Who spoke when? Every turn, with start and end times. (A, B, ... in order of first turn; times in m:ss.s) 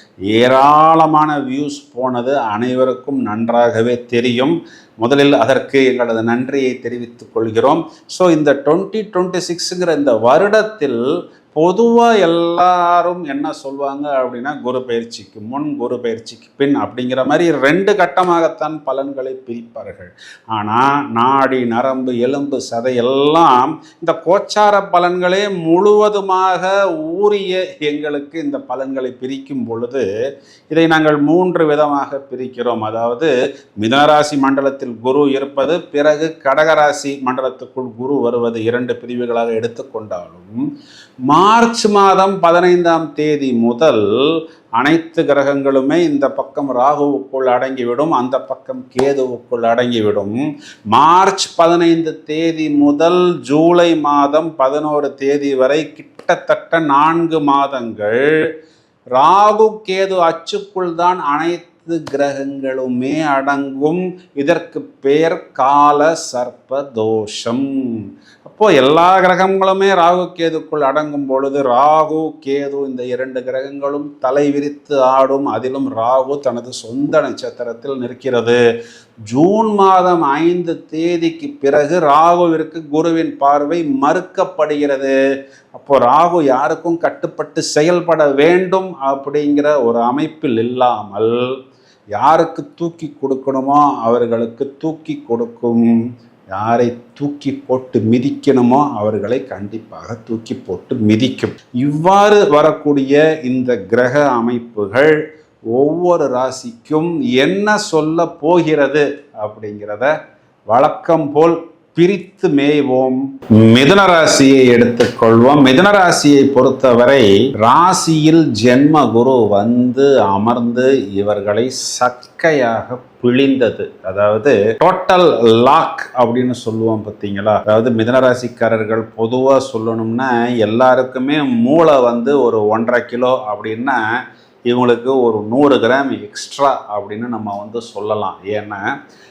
0:00.3-0:30.0 A
0:30.7-0:40.6 A
0:41.3-0:44.0 A
0:44.8-0:50.4 A
0:50.9-0:58.3 A
0:59.2-1:18.6 A
1:19.3-1:25.1 A
1:25.7-1:31.4 A
1:32.1-1:36.0 A
1:36.5-1:45.2 A
1:45.7-1:50.1 A
1:50.7-2:14.0 A
2:14.7-2:18.8 A